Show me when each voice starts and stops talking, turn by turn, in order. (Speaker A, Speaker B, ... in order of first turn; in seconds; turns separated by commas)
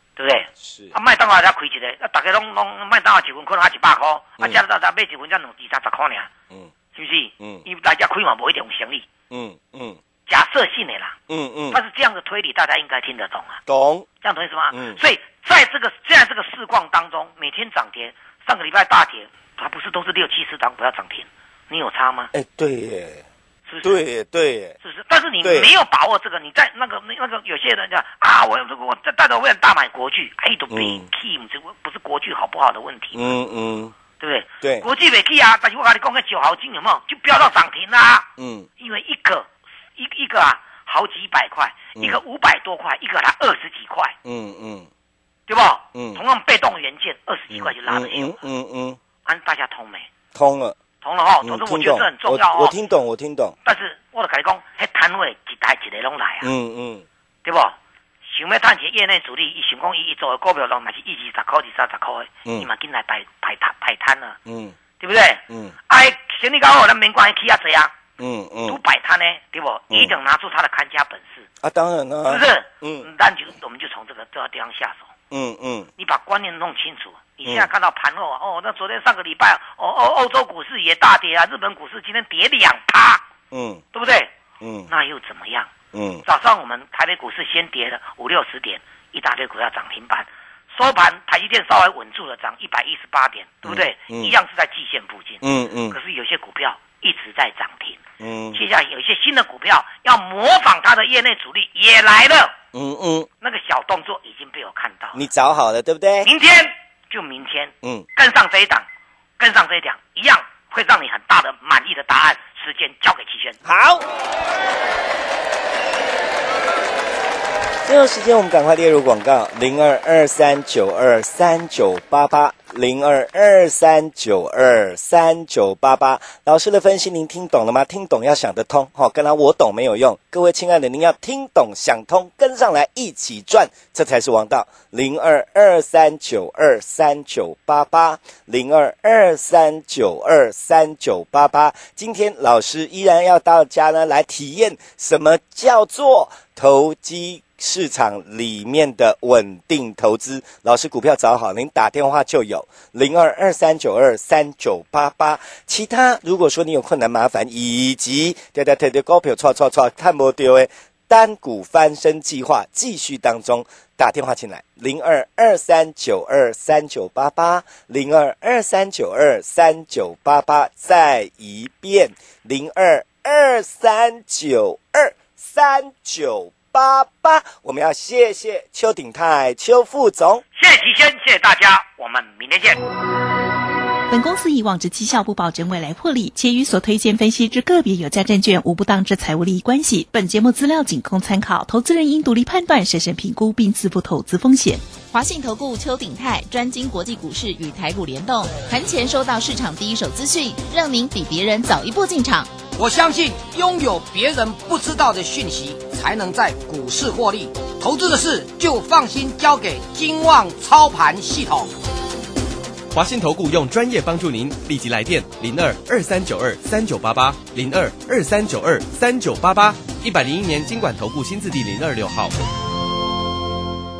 Speaker A: 0.2-6.3, Speaker B: 0.6-0.9, Speaker A: 7.0-9.1, Speaker B: 7.4-7.7, Speaker B: 9.3-10.0, Speaker A: 10.3-11.2, Speaker B: 11.3-11.8, Speaker A: 11.7-13.6, Speaker B: 13.7-14.1, Speaker A: 14.2-22.3, Speaker B: 14.7-15.0, Speaker B: 22.3-23.2, Speaker A: 23.7-24.0, Speaker B: 23.8-24.8, Speaker A: 24.8-33.3, Speaker B: 25.4-25.7, Speaker B: 30.7-31.1, Speaker B: 33.1-33.9, Speaker A: 34.2-38.3, Speaker B: 34.6-34.9, Speaker B: 38.4-38.7, Speaker A: 38.8-44.2, Speaker B: 44.2-44.9, Speaker A: 45.5-48.4, Speaker B: 46.0-46.2, Speaker B: 47.5-49.0, Speaker A: 49.2-50.1, Speaker B: 50.4-50.8, Speaker A: 51.0-52.8, Speaker B: 51.4-53.5, Speaker A: 53.6-56.5, Speaker B: 56.4-57.1, Speaker A: 57.5-64.4, Speaker B: 64.5-64.8, Speaker A: 65.0-68.0, Speaker B: 65.5-65.8, Speaker B: 68.2-68.8, Speaker A: 68.7-71.5, Speaker B: 71.6-73.1, Speaker A: 72.3-75.1, Speaker B: 75.3-75.9, Speaker A: 76.0-83.2, Speaker B: 83.5-83.8, Speaker A: 83.9-84.3, Speaker B: 84.6-84.9, Speaker A: 84.9-85.7, Speaker B: 85.9-86.2, Speaker A: 86.2-98.0, Speaker B: 93.7-94.4, Speaker B: 95.4-96.0, Speaker B: 98.2-98.6, Speaker A: 98.5-102.6, Speaker B: 102.7-103.3, Speaker A: 103.4-105.2, Speaker B: 105.1-106.3, Speaker A: 106.2-108.9, Speaker A: 109.4-113.6, Speaker B: 113.7-114.1, Speaker B: 117.8-180.4, Speaker A: 180.6-182.8, Speaker C: 184.1-194.8, Speaker D: 195.1-202.5, Speaker E: 202.8-211.7, Speaker F: 212.9-222.3